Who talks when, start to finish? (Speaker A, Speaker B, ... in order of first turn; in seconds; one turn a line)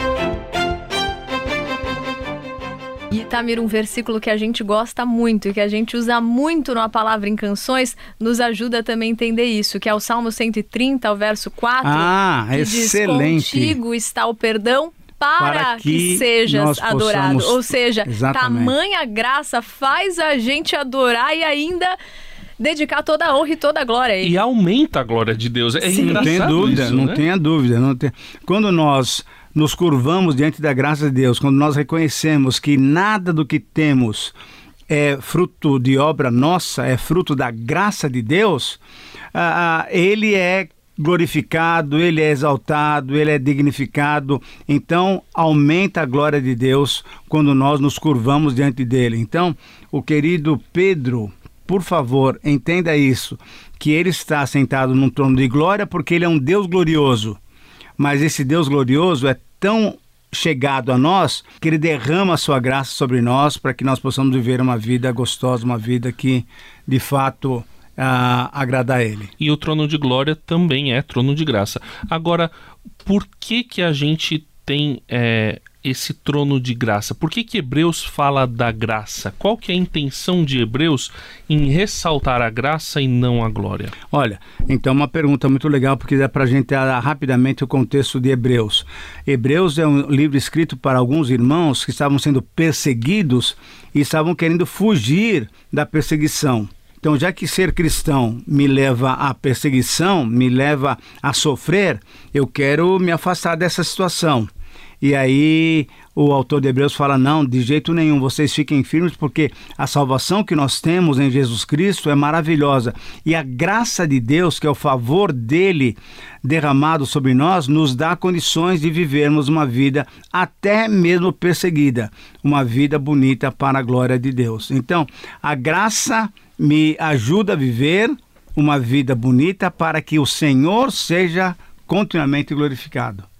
Speaker A: 3.1-22.0
Speaker B: 11.8-13.8
Speaker B: 15.4-18.8
Speaker A: 22.6-24.4
Speaker C: 24.2-27.2
Speaker A: 25.8-26.5
Speaker B: 25.9-34.3
Speaker B: 34.9-38.8
Speaker B: 39.3-57.4
Speaker B: 58.0-69.3
Speaker C: 69.4-72.5
Speaker C: 73.0-83.9
Speaker B: 84.1-104.5
Speaker B: 105.0-133.3